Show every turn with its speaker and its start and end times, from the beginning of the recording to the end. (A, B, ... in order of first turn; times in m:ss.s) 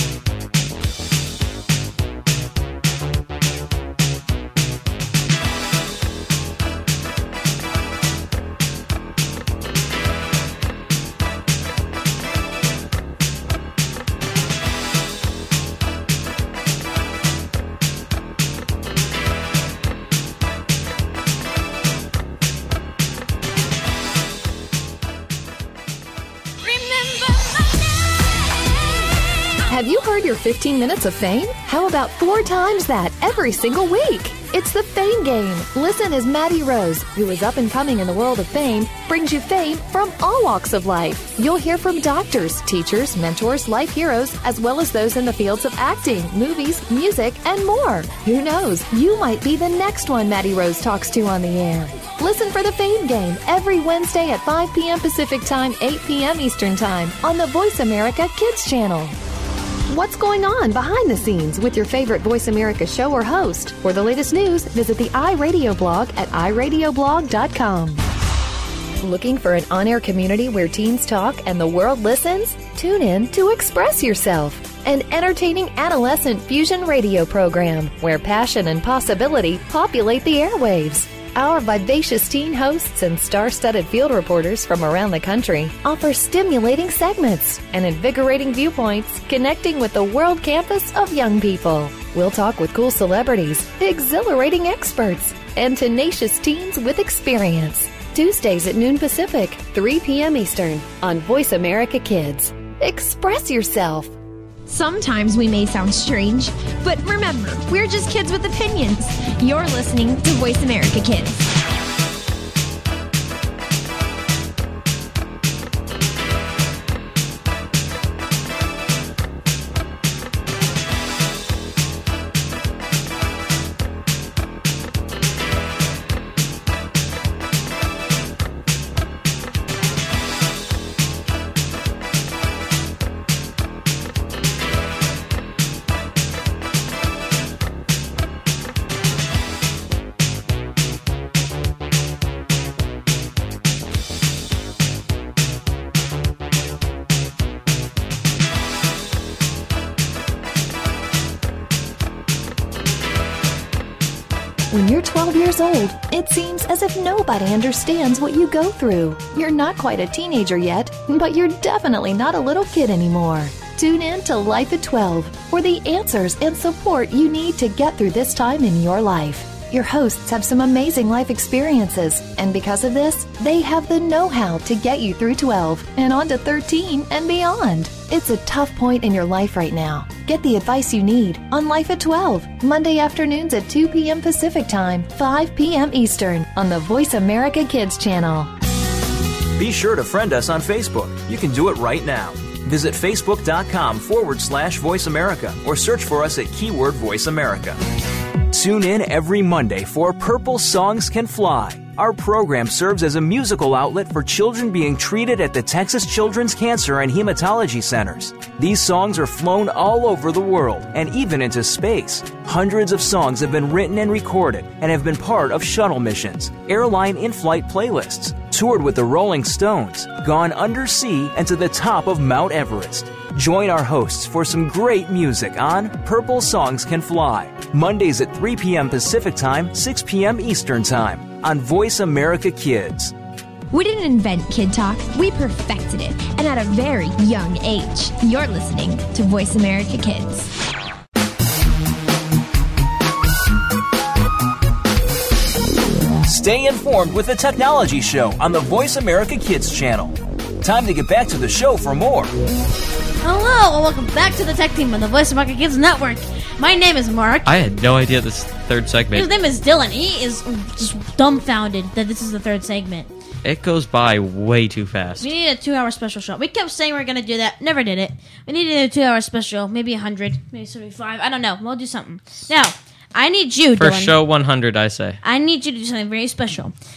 0:29.7-0:59.2 A
0:59.9-1:08.0 A
1:09.0-1:44.1 A
1:44.7-1:51.4 B
2:34.7-3:08.5 A
3:09.6-3:17.8 C
3:18.5-3:53.1 C
3:53.7-4:00.5 B
4:06.2-4:12.3 C
4:13.2-4:17.5 D
4:17.4-4:19.3 E
4:19.1-4:23.1 D
4:23.4-4:25.3 E
4:25.2-4:34.2 D
4:33.7-4:35.2 E
4:35.2-4:36.7 D